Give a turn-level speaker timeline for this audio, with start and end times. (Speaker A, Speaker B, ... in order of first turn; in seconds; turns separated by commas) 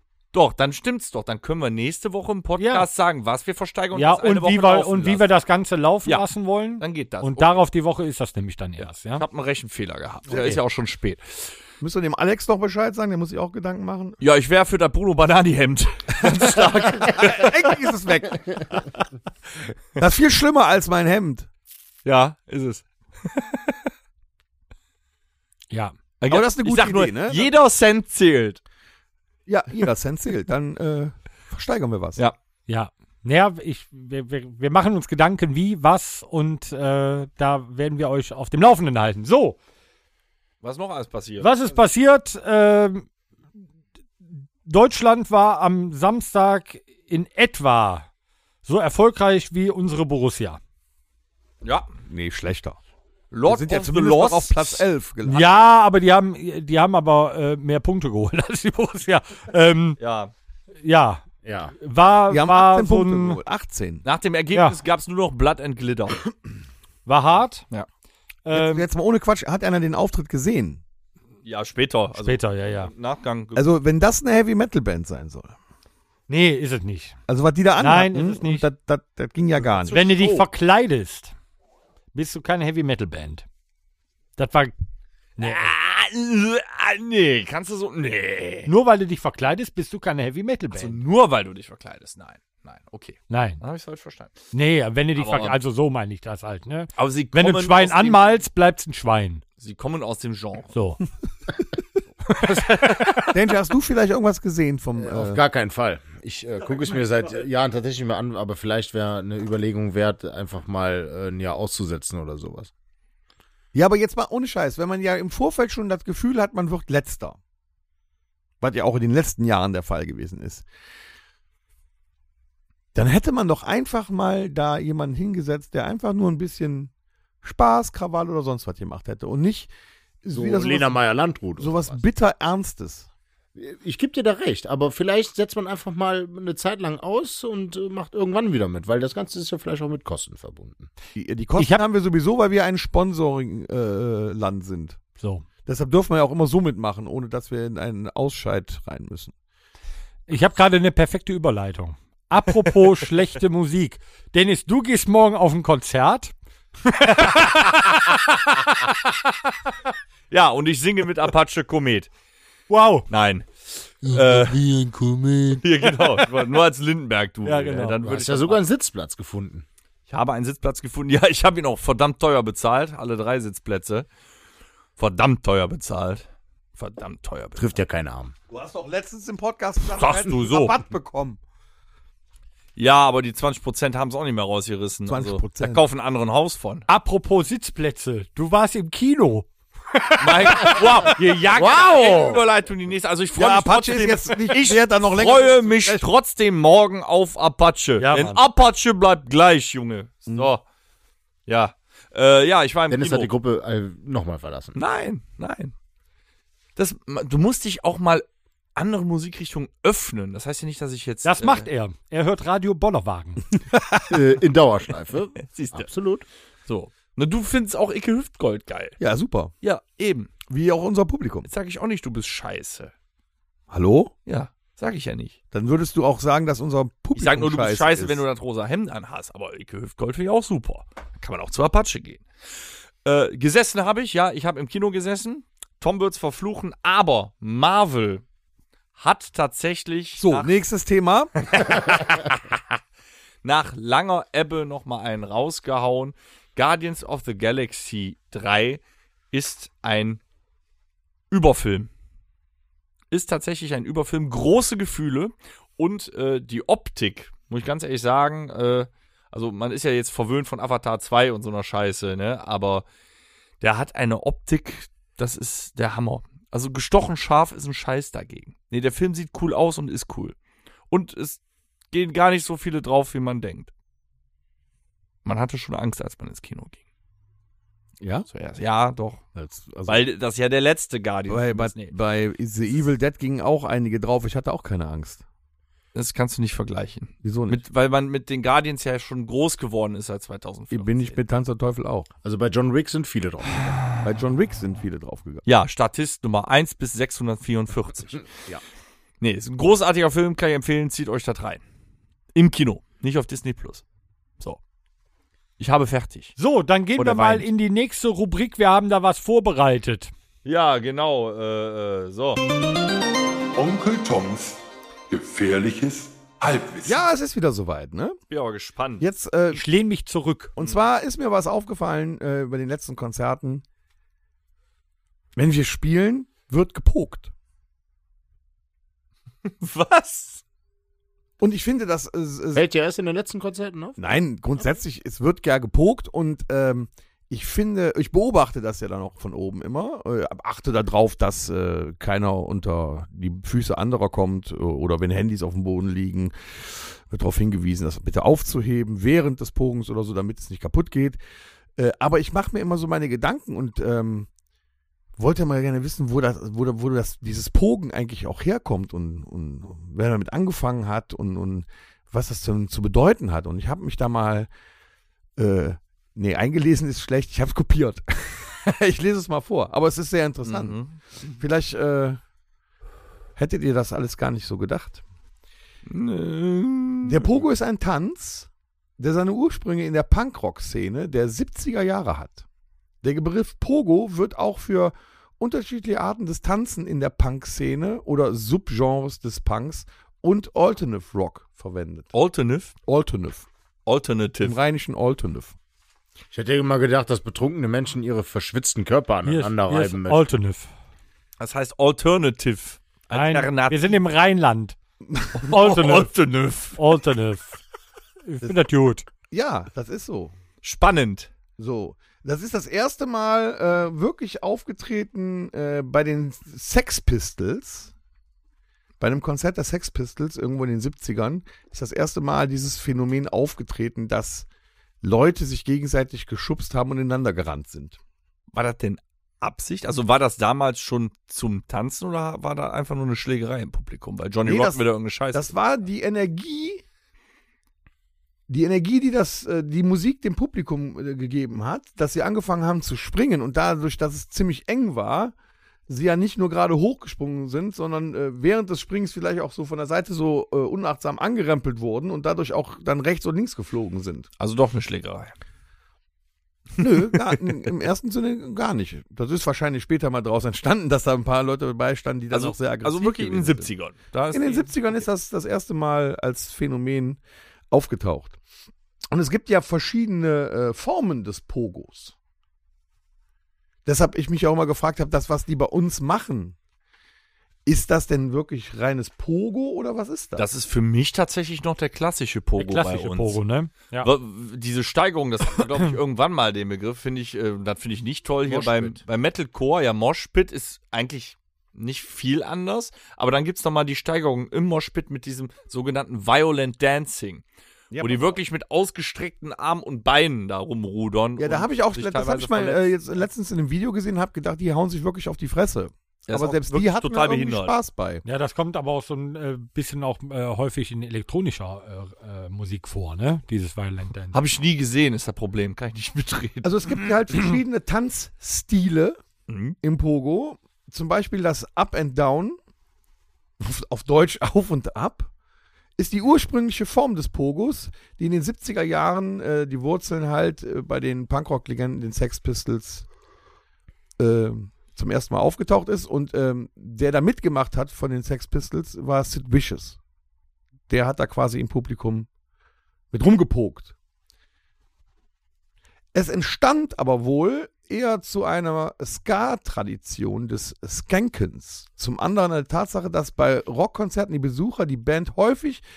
Speaker A: 0.3-5.2, Speaker B: 2.6-2.9, Speaker B: 4.0-9.2, Speaker A: 6.8-7.5, Speaker A: 8.8-11.5, Speaker C: 10.3-10.6, Speaker C: 11.8-14.2, Speaker A: 14.2-17.8, Speaker C: 17.1-18.9, Speaker C: 20.0-21.5, Speaker A: 22.1-23.8, Speaker A: 26.2-28.6, Speaker C: 26.3-27.5, Speaker C: 29.5-32.2, Speaker B: 32.7-39.6, Speaker A: 40.6-41.5, Speaker B: 41.4-43.1, Speaker B: 44.6-48.1, Speaker B: 48.6-50.6, Speaker A: 51.6-51.9, Speaker C: 52.1-52.8, Speaker A: 53.3-54.9, Speaker C: 53.5-55.5, Speaker B: 55.2-60.0, Speaker A: 60.0-60.3, Speaker B: 60.8-61.2, Speaker D: 61.4-61.8, Speaker B: 61.8-63.4, Speaker C: 62.3-64.0, Speaker A: 64.0-66.2, Speaker B: 67.1-67.7, Speaker B: 68.5-68.9, Speaker C: 68.5-70.8, Speaker A: 71.4-73.7, Speaker B: 72.2-72.9, Speaker C: 73.5-75.5, Speaker B: 76.3-77.2, Speaker C: 77.3-80.1, Speaker B: 77.8-78.7, Speaker A: 79.8-80.5, Speaker B: 79.9-81.3, Speaker B: 82.1-83.5, Speaker B: 84.4-84.7, Speaker B: 85.4-85.7, Speaker A: 85.4-88.7, Speaker B: 88.7-91.0, Speaker A: 90.7-94.4, Speaker B: 93.3-93.6, Speaker B: 94.5-99.4, Speaker A: 95.2-95.6, Speaker A: 97.0-98.4, Speaker A: 99.6-100.7, Speaker B: 100.7-101.0, Speaker A: 102.4-103.2, Speaker B: 102.6-103.1, Speaker C: 103.3-105.4, Speaker D: 105.0-112.7, Speaker C: 113.7-117.4, Speaker C: 118.6-120.7, Speaker C: 122.9-126.9, Speaker C: 127.4-129.7, Speaker C: 130.2-131.0, Speaker D: 130.3-132.0, Speaker C: 131.6-133.1, Speaker D: 133.6-140.9, Speaker C: 141.2-145.0, Speaker B: 141.6-141.8, Speaker B: 145.2-145.4, Speaker C: 145.7-149.3, Speaker B: 150.3-156.3, Speaker B: 156.9-158.2, Speaker A: 157.3-159.3, Speaker A: 160.3-162.1, Speaker B: 162.7-163.1, Speaker A: 163.1-164.7, Speaker D: 164.0-165.6, Speaker A: 165.6-168.6, Speaker B: 167.4-168.0, Speaker D: 168.0-169.7, Speaker A: 170.1-174.1, Speaker A: 175.0-177.7, Speaker D: 177.6-178.3, Speaker C: 178.5-181.4, Speaker A: 179.8-180.8, Speaker A: 182.8-186.9, Speaker C: 185.1-185.8, Speaker B: 186.9-191.1, Speaker A: 190.2-200.6, Speaker D: 191.5-192.4, Speaker C: 193.3-196.1, Speaker B: 198.0-198.4, Speaker A: 201.5-203.3, Speaker D: 202.9-204.8, Speaker A: 204.8-205.7, Speaker A: 206.8-208.2, Speaker A: 208.8-211.7, Speaker B: 211.2-213.4, Speaker C: 213.8-214.0, Speaker D: 214.1-216.2, Speaker A: 215.4-215.9, Speaker A: 216.7-219.0, Speaker C: 219.0-219.5, Speaker A: 219.6-220.3, Speaker C: 220.5-221.5, Speaker A: 221.4-222.9, Speaker C: 223.7-224.1, Speaker A: 224.3-225.3, Speaker C: 225.5-228.2, Speaker A: 227.2-232.2, Speaker A: 233.1-238.2, Speaker A: 239.0-240.5, Speaker C: 240.2-241.9, Speaker A: 241.4-242.6, Speaker A: 243.4-248.8, Speaker A: 249.3-250.2, Speaker A: 251.3-251.9, Speaker A: 253.1-262.9, Speaker A: 263.6-270.4, Speaker A: 270.9-271.4, Speaker A: 271.9-273.7, Speaker A: 275.2-276.8, Speaker C: 278.0-278.3, Speaker A: 278.3-279.2, Speaker C: 279.4-280.0, Speaker A: 279.9-281.9, Speaker C: 281.3-285.2, Speaker A: 285.9-291.2, Speaker C: 287.2-287.6, Speaker C: 290.7-292.1, Speaker D: 292.2-293.8, Speaker C: 294.0-295.4, Speaker A: 295.4-298.3, Speaker A: 299.2-301.6, Speaker A: 302.3-303.8, Speaker A: 305.6-306.4, Speaker B: 306.4-310.1, Speaker A: 307.0-307.5, Speaker A: 310.4-312.4, Speaker E: 313.6-314.6, Speaker E: 315.1-317.1, Speaker C: 316.9-318.2, Speaker A: 318.3-319.1, Speaker C: 319.0-319.6, Speaker B: 319.5-320.6, Speaker C: 320.6-323.6, Speaker C: 325.4-327.3, Speaker A: 329.4-330.4, Speaker C: 331.4-332.6, Speaker D: 332.5-334.1, Speaker C: 334.0-351.2, Speaker C: 351.8-354.3, Speaker C: 355.2-364.5, Speaker C: 365.4-370.8, Speaker A: 370.4-371.0, Speaker C: 371.4-372.2, Speaker C: 373.4-375.0, Speaker A: 375.9-377.4, Speaker C: 377.0-382.4, Speaker C: 383.0-392.1, Speaker A: 392.1-392.8, Speaker C: 392.9-393.5, Speaker A: 393.9-394.6, Speaker C: 394.4-395.6, Speaker D: 396.3-400.3, Speaker B: 399.3-400.7, Speaker A: 401.4-404.0, Speaker B: 403.1-404.8, Speaker A: 405.4-406.8, Speaker B: 405.4-406.1, Speaker B: 406.8-407.6, Speaker B: 408.2-409.1, Speaker C: 409.3-410.3, Speaker A: 410.6-411.3, Speaker C: 411.6-417.9, Speaker C: 419.0-424.5, Speaker C: 425.0-428.0, Speaker A: 428.5-435.5, Speaker C: 434.4-434.8, Speaker C: 435.3-436.8, Speaker C: 438.5-445.3, Speaker C: 445.9-454.3, Speaker A: 454.4-455.3, Speaker C: 456.8-463.7, Speaker A: 456.9-457.2, Speaker A: 462.3-465.1, Speaker C: 464.3-468.4, Speaker C: 469.1-472.1, Speaker C: 473.9-476.6, Speaker C: 477.7-480.5, Speaker A: 480.4-483.4, Speaker B: 482.6-484.1, Speaker A: 484.0-497.4, Speaker C: 488.5-489.0, Speaker C: 497.9-498.4, Speaker A: 498.0-503.2, Speaker C: 501.4-508.2, Speaker A: 506.3-507.8, Speaker B: 508.2-514.4, Speaker A: 514.3-517.1, Speaker C: 516.6-519.2, Speaker A: 519.5-519.8, Speaker C: 519.8-522.6, Speaker C: 523.6-525.3, Speaker C: 526.0-533.1, Speaker C: 534.2-540.0, Speaker C: 540.9-542.3, Speaker C: 543.1-543.9, Speaker C: 546.1-555.8